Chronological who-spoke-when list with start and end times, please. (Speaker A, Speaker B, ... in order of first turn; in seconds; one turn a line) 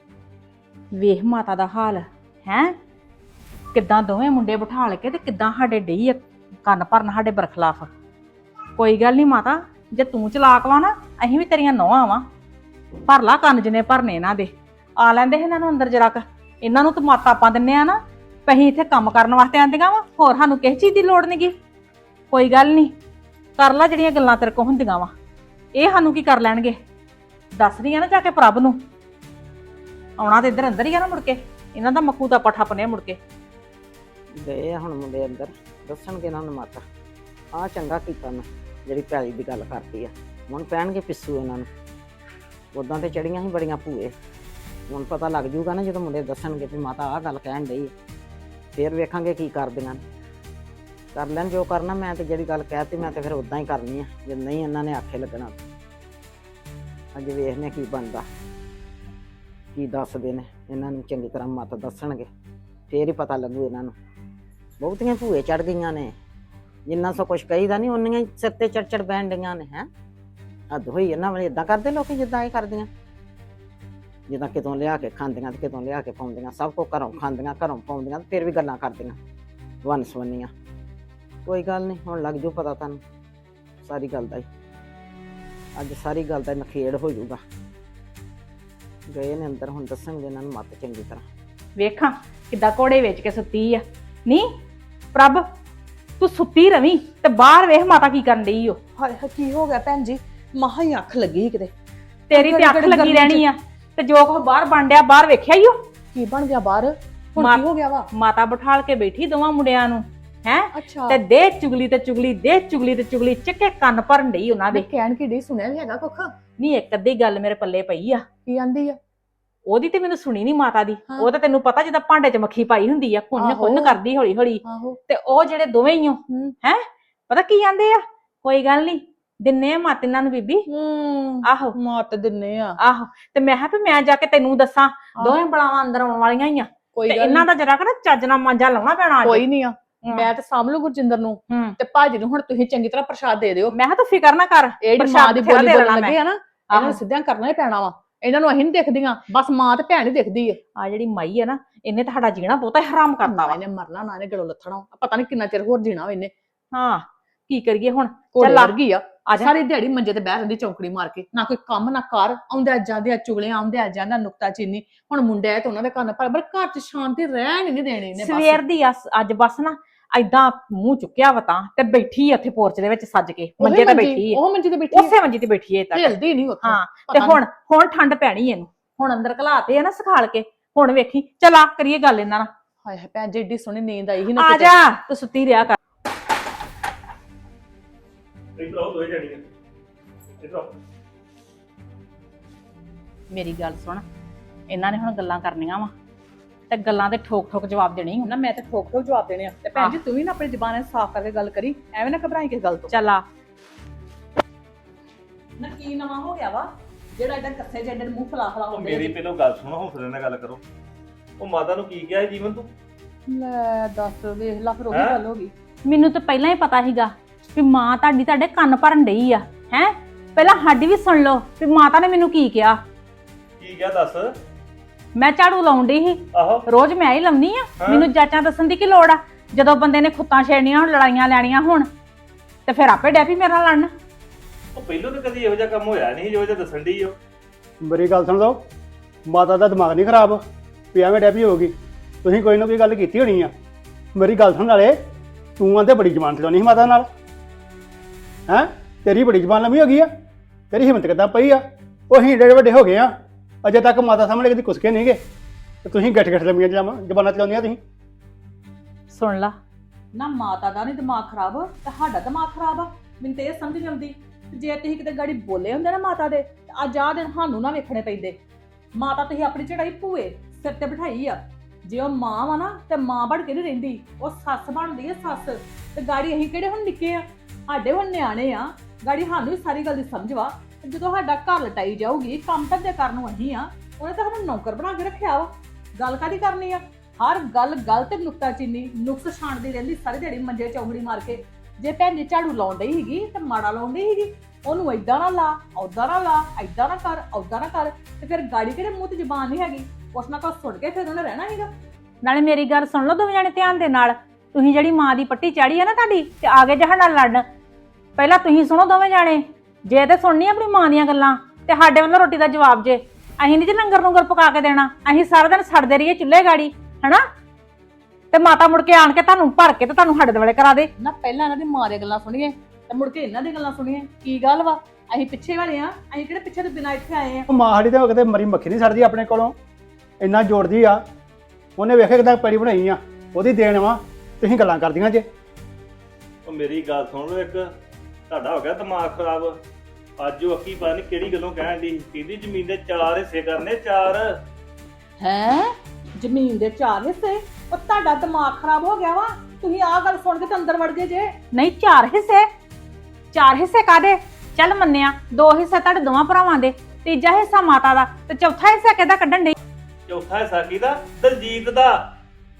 Speaker A: 0.9-2.7
Speaker A: 3.7-7.9
Speaker A: 8.8-12.2
Speaker A: 13.1-21.5
Speaker A: 22.3-22.9
Speaker A: 23.6-25.1
Speaker A: 25.7-26.8
Speaker A: 27.6-28.8
Speaker A: 30.2-33.2
Speaker B: 34.4-36.8
Speaker B: 37.5-41.7
Speaker B: 42.7-44.1
Speaker B: 44.9-47.9
Speaker B: 48.7-50.0
Speaker B: 51.1-55.6
Speaker B: 57.1-58.2
Speaker B: 59.7-62.3
Speaker B: 62.9-63.9
Speaker B: 64.8-66.1
Speaker B: 66.9-69.9
Speaker B: 70.7-72.9
Speaker B: 74.3-79.2
Speaker B: 79.8-80.5
Speaker B: 81.5-83.0
Speaker B: 83.8-84.5
Speaker B: 85.8-87.4
Speaker B: 89.1-91.2
Speaker A: 91.8-94.5
Speaker A: 95.1-95.4
Speaker A: 96.2-98.8
Speaker C: 99.0-101.7
Speaker C: 102.3-103.4
Speaker A: 102.3-105.8
Speaker C: 106.1-108.1
Speaker A: 107.4-107.6
Speaker A: 108.1-114.8
Speaker C: 110.7-111.2
Speaker C: 114.7-116.3
Speaker A: 116.6-118.2
Speaker C: 118.5-119.0
Speaker A: 119.7-130.6
Speaker C: 123.3-124.0
Speaker C: 124.6-125.0
Speaker C: 126.3-126.5
Speaker C: 130.7-132.7
Speaker A: 131.4-131.7
Speaker A: 132.8-139.4
Speaker C: 136.9-137.5
Speaker C: 139.2-143.7
Speaker A: 141.5-141.8
Speaker A: 143.7-146.2
Speaker C: 144.8-150.6
Speaker A: 146.7-147.0
Speaker A: 150.8-153.6
Speaker C: 153.2-156.3
Speaker A: 156.7-158.7
Speaker C: 158.3-168.6
Speaker A: 159.2-159.5
Speaker A: 168.2-174.4
Speaker C: 173.6-175.1
Speaker A: 174.9-182.5
Speaker C: 175.9-177.4
Speaker C: 182.8-184.7
Speaker A: 184.4-185.8
Speaker D: 188.6-189.4
Speaker D: 190.4-190.7
Speaker A: 193.3-194.0
Speaker A: 194.7-195.9
Speaker A: 196.7-198.3
Speaker C: 198.2-202.9
Speaker A: 202.9-203.2
Speaker C: 205.6-209.2
Speaker D: 208.7-210.6
Speaker D: 211.4-212.7
Speaker C: 213.3-215.5
Speaker D: 214.9-215.2
Speaker A: 215.9-222.8
Speaker D: 223.6-224.3
Speaker A: 225.2-231.9
Speaker D: 226.3-226.6
Speaker D: 227.8-228.1
Speaker A: 232.7-233.9
Speaker D: 234.7-237.1
Speaker E: 237.8-238.6
Speaker E: 239.2-240.4
Speaker E: 240.9-243.5
Speaker E: 244.1-244.9
Speaker E: 245.6-247.1
Speaker E: 248.5-250.1
Speaker E: 250.7-253.1
Speaker E: 253.6-255.2
Speaker E: 255.8-257.8
Speaker A: 259.1-259.5
Speaker C: 260.1-268.4
Speaker C: 268.9-301.7
Speaker A: 302.2-307.4
Speaker A: 308.2-317.2
Speaker A: 318.3-320.9
Speaker C: 321.0-327.5
Speaker E: 327.5-329.6
Speaker E: 330.2-331.0
Speaker E: 331.8-335.2
Speaker D: 336.4-337.6
Speaker D: 338.3-339.6
Speaker D: 340.2-344.2
Speaker C: 345.2-351.3
Speaker A: 351.5-352.5
Speaker A: 353.3-359.5
Speaker D: 360.1-362.0